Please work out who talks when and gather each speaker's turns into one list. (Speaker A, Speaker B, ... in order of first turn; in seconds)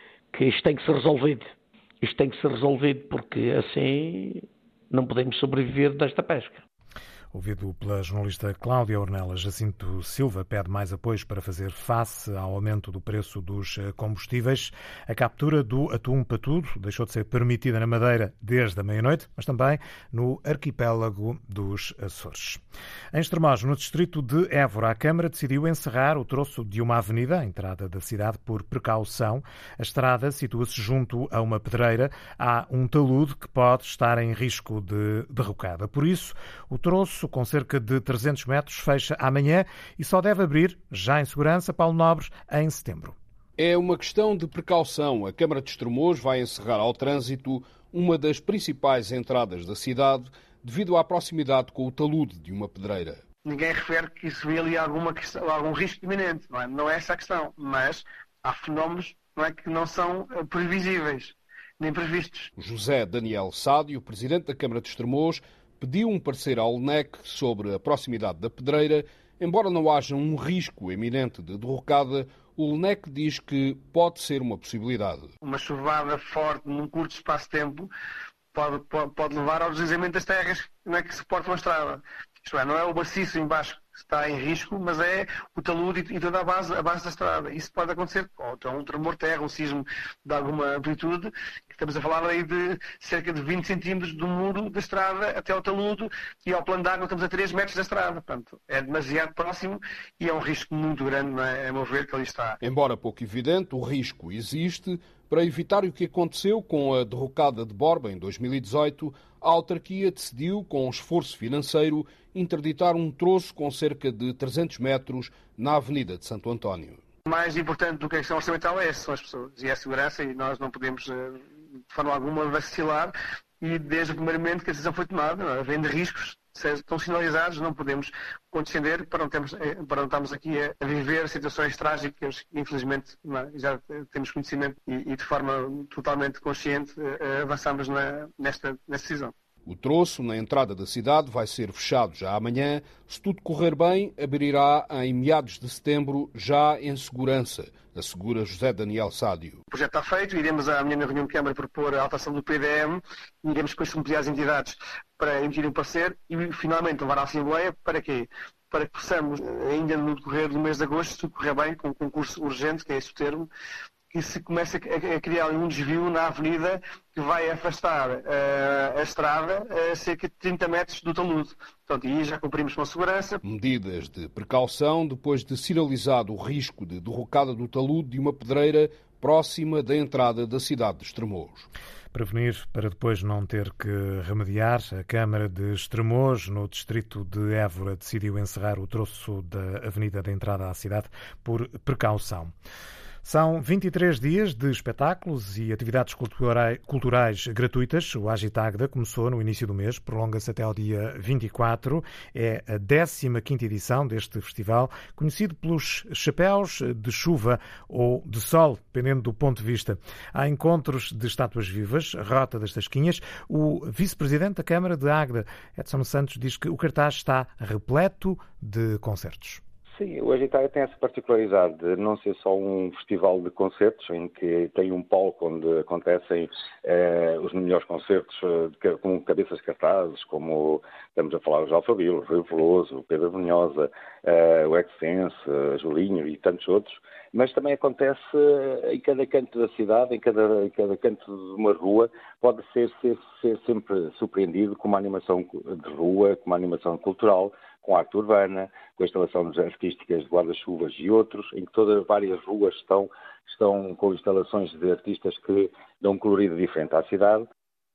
Speaker A: 0.3-6.6
Speaker B: 7.3-22.6, 23.1-43.1, 182.1-192.5, 193.2-219.6
Speaker C: 43.6-53.2, 62.6-75.3, 102.6-117.0, 139.7-149.6, 173.4-181.7
Speaker D: 53.4-62.5, 75.4-77.9, 78.5-102.6, 117.2-139.3, 149.7-163.5, 164.1-173.4
Speaker E: 219.9-257.4